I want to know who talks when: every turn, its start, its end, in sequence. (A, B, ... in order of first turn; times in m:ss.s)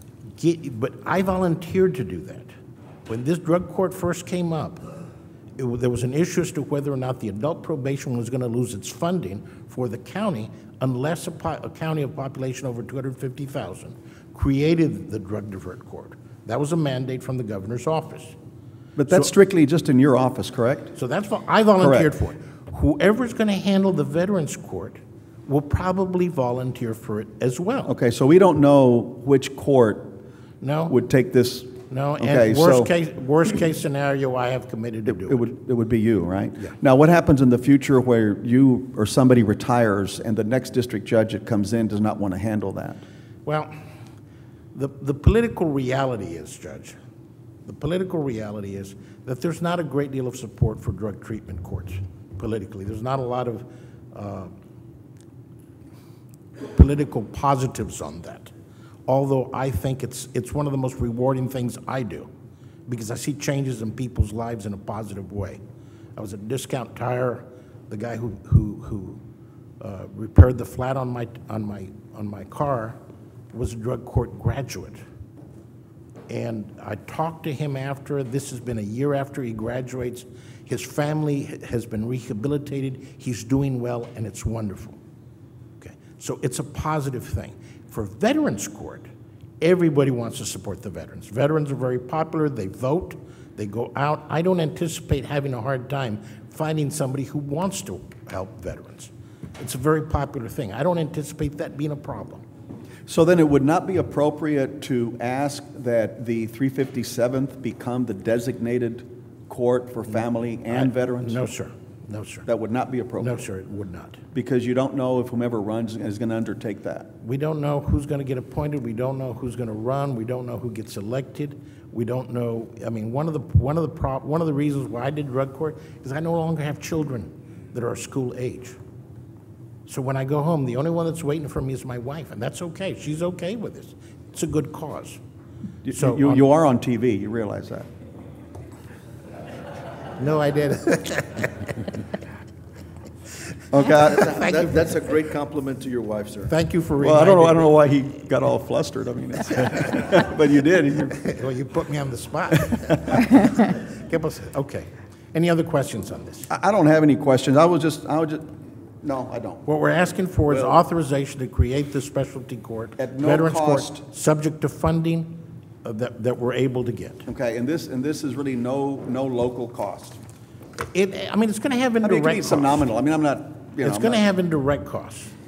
0:00.4-0:02.5 A
0:03.1-0:04.8 A
0:05.6-0:18.4 A
0:19.0-0:20.9 B
0:20.9-0:27.9 A
0:21.8-0:22.1 B
0:27.8-0:30.1 B
0:30.6-0:30.9 A
0:30.9-0:32.9 B
0:31.9-0:35.5 A
0:35.0-0:43.0 B
0:43.4-0:43.7 A
0:44.7-0:47.0 A
0:47.6-0:54.5 A
0:56.6-0:58.5 A
0:59.1-1:02.3 A
1:02.9-1:05.6 A
1:06.2-1:09.2 A
1:09.8-1:13.0 A
1:13.5-1:15.0 A
1:16.3-1:25.0 A
1:25.8-1:29.1 A
1:29.6-1:42.4 A
1:43.1-1:51.4 B
1:50.7-1:52.4 A
1:52.4-1:53.4 B
1:53.2-1:54.2 A
1:54.3-1:57.1 B
1:57.2-2:08.8 A
2:09.8-2:15.2 A
2:15.8-2:17.9 B
2:15.9-2:16.4 A
2:20.2-2:21.5 A
2:23.7-2:24.3 B
2:23.9-2:26.5 C
2:24.2-2:24.9 A
2:26.5-2:27.7 A
2:27.0-2:31.2 B
2:31.2-2:36.5 A
2:36.5-2:38.5 B
2:39.0-2:39.6 B
2:39.6-2:47.3 A
2:40.5-2:40.8 B
2:43.0-2:44.0 B
2:47.3-2:50.2 B
2:50.8-2:52.8 A
2:52.0-2:54.2 B
2:53.8-2:55.3 A